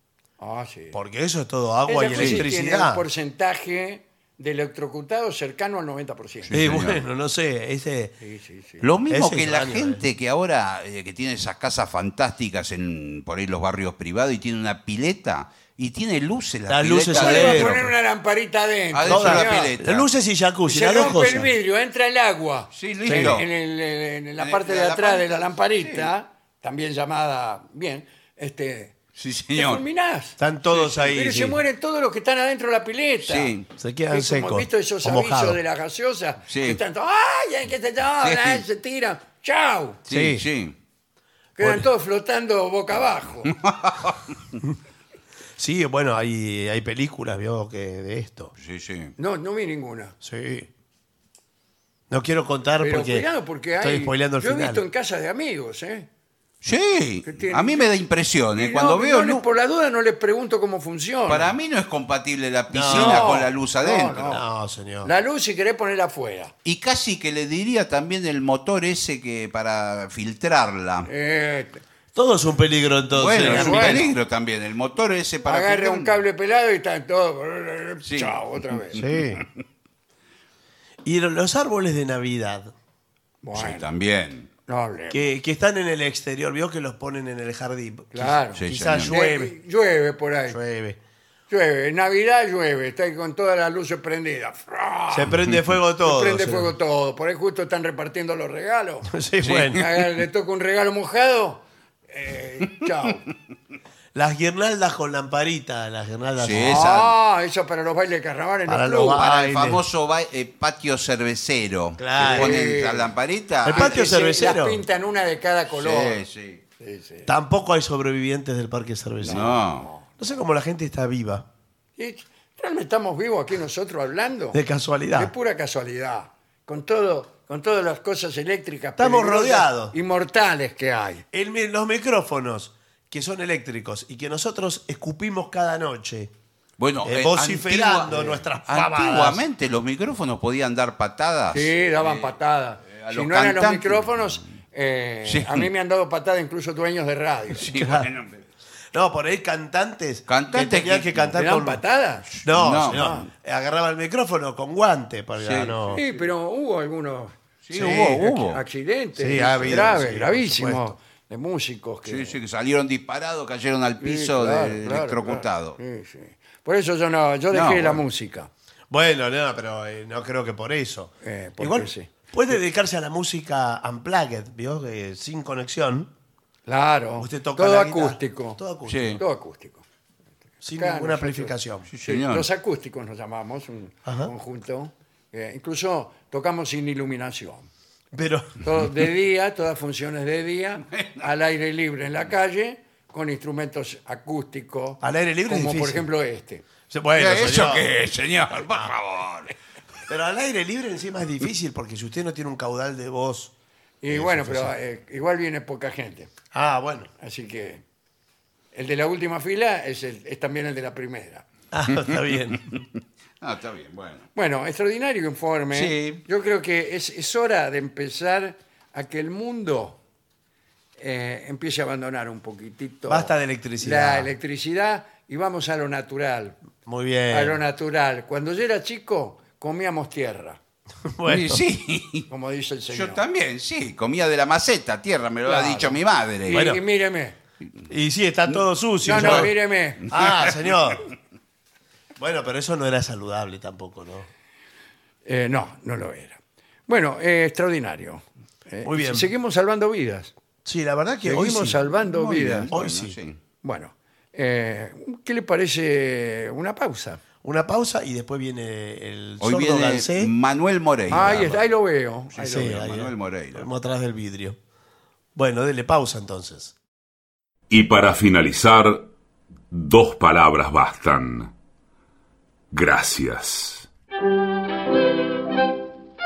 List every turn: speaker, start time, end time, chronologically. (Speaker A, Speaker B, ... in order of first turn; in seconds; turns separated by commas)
Speaker A: 0.4-1.0, Speaker B: 0.9-3.0, Speaker A: 1.9-6.6, Speaker C: 2.1-2.4, Speaker C: 6.4-7.0, Speaker B: 6.5-8.2, Speaker A: 8.2-8.9, Speaker C: 8.8-17.9, Speaker B: 9.1-10.0, Speaker B: 16.7-17.8, Speaker A: 17.1-19.7, Speaker C: 18.9-20.1, Speaker B: 19.1-21.5, Speaker A: 20.6-28.9, Speaker C: 22.7-23.5, Speaker B: 23.1-23.4, Speaker C: 24.4-25.3, Speaker C: 25.8-26.1, Speaker C: 29.1-29.8, Speaker A: 29.5-33.5, Speaker B: 30.4-31.6, Speaker C: 33.2-33.7, Speaker B: 33.8-35.6, Speaker A: 34.1-40.0, Speaker C: 36.5-36.8, Speaker C: 38.2-38.6, Speaker C: 40.1-40.7, Speaker B: 40.1-40.5, Speaker A: 41.6-43.5, Speaker B: 41.6-41.9, Speaker C: 43.5-44.4, Speaker B: 45.6-48.5, Speaker C: 48.6-49.1, Speaker A: 49.2-50.1, Speaker B: 50.2-50.7, Speaker B: 52.1-53.3, Speaker A: 52.8-56.1, Speaker B: 53.8-54.8, Speaker C: 56.6-59.4, Speaker A: 57.2-57.9, Speaker A: 58.5-61.5, Speaker C: 61.3-64.4, Speaker B: 62.7-63.4, Speaker A: 62.9-64.4, Speaker B: 64.3-65.1, Speaker A: 65.0-66.5, Speaker C: 66.6-71.1, Speaker A: 71.0-71.8, Speaker B: 72.1-74.1, Speaker C: 73.1-76.2, Speaker A: 73.3-74.1, Speaker A: 75.4-79.0, Speaker C: 78.0-78.4, Speaker B: 79.0-79.4, Speaker C: 79.0-79.5, Speaker B: 81.0-82.7, Speaker A: 83.4-83.9, Speaker C: 83.5-84.5, Speaker A: 84.7-85.3, Speaker B: 85.1-89.5, Speaker A: 88.1-90.6, Speaker C: 88.6-89.1, Speaker B: 90.5-91.0, Speaker A: 91.5-95.4, Speaker B: 95.1-96.7, Speaker A: 96.0-99.1, Speaker B: 99.1-99.9, Speaker C: 99.4-99.8, Speaker A: 99.7-103.2, Speaker B: 104.1-106.9, Speaker C: 106.4-107.1, Speaker A: 106.6-109.2, Speaker B: 108.7-109.8, Speaker C: 109.1-114.0, Speaker B: 112.0-112.7, Speaker A: 112.2-113.1, Speaker B: 113.6-114.8, Speaker A: 113.7-116.2, Speaker C: 115.7-116.6, Speaker A: 116.8-117.3, Speaker B: 117.2-119.6, Speaker A: 119.2-120.0, Speaker C: 119.2-119.9, Speaker B: 120.2-121.5, Speaker A: 122.0-124.6, Speaker B: 124.5-125.3, Speaker A: 125.1-131.2, Speaker B: 129.0-129.9, Speaker B: 131.3-136.3, Speaker C: 136.8-142.3, Speaker B: 137.0-139.4, Speaker A: 141.5-147.7, Speaker C: 142.9-144.4, Speaker C: 145.2-145.7, Speaker C: 147.6-148.4, Speaker B: 147.7-148.1, Speaker B: 148.9-151.8, Speaker C: 150.3-151.3, Speaker A: 151.3-153.2, Speaker C: 152.4-153.2, Speaker B: 152.4-156.0, Speaker C: 155.4-155.8, Speaker A: 155.9-162.4, Speaker C: 157.7-158.6, Speaker B: 159.1-160.9, Speaker C: 162.0-165.8, Speaker A: 164.0-168.5, Speaker C: 167.5-168.0, Speaker B: 168.9-176.1, Speaker A: 171.2-172.1, Speaker A: 176.7-178.6, Speaker B: 177.2-179.2, Speaker C: 178.9-179.2, Speaker A: 179.2-179.8, Speaker B: 180.6-181.9, Speaker A: 180.7-187.7, Speaker C: 181.9-182.5, Speaker B: 184.0-184.3, Speaker B: 188.1-188.9, Speaker A: 188.6-196.6, Speaker B: 195.0-196.1, Speaker B: 196.9-197.9, Speaker C: 197.2-199.5, Speaker B: 200.1-203.5, Speaker A: 204.0-206.3, Speaker B: 204.1-204.7, Speaker B: 206.5-207.1, Speaker A: 207.2-207.8, Speaker A: 208.7-211.4, Speaker B: 211.7-212.6, Speaker C: 212.5-212.8, Speaker C: 213.4-214.2, Speaker A: 214.3-220.0, Speaker C: 215.7-216.2, Speaker A: 221.0-226.6, Speaker B: 223.1-224.3, Speaker B: 226.8-227.6, Speaker A: 227.3-230.6, Speaker B: 231.0-231.6, Speaker C: 231.3-232.3, Speaker A: 232.3-233.2, Speaker C: 232.9-236.7, Speaker A: 235.4-237.3, Speaker B: 236.5-236.8, Speaker B: 237.9-241.1, Speaker A: 239.0-240.1, Speaker C: 239.1-239.4, Speaker C: 240.1-240.5, Speaker B: 242.2-244.3, Speaker A: 245.2-250.3, Speaker B: 248.8-249.3, Speaker B: 250.6-251.8, Speaker A: 251.2-252.7, Speaker C: 251.9-253.4, Speaker B: 252.7-253.2, Speaker A: 253.6-257.2, Speaker B: 257.4-260.3, Speaker C: 259.4-261.6, Speaker B: 261.1-261.6, Speaker A: 261.1-262.8, Speaker B: 262.4-264.6, Speaker C: 262.4-263.6, Speaker B: 265.3-266.7, Speaker D: 267.7-269.1, Speaker D: 269.7-271.5, Speaker D: 272.7-273.9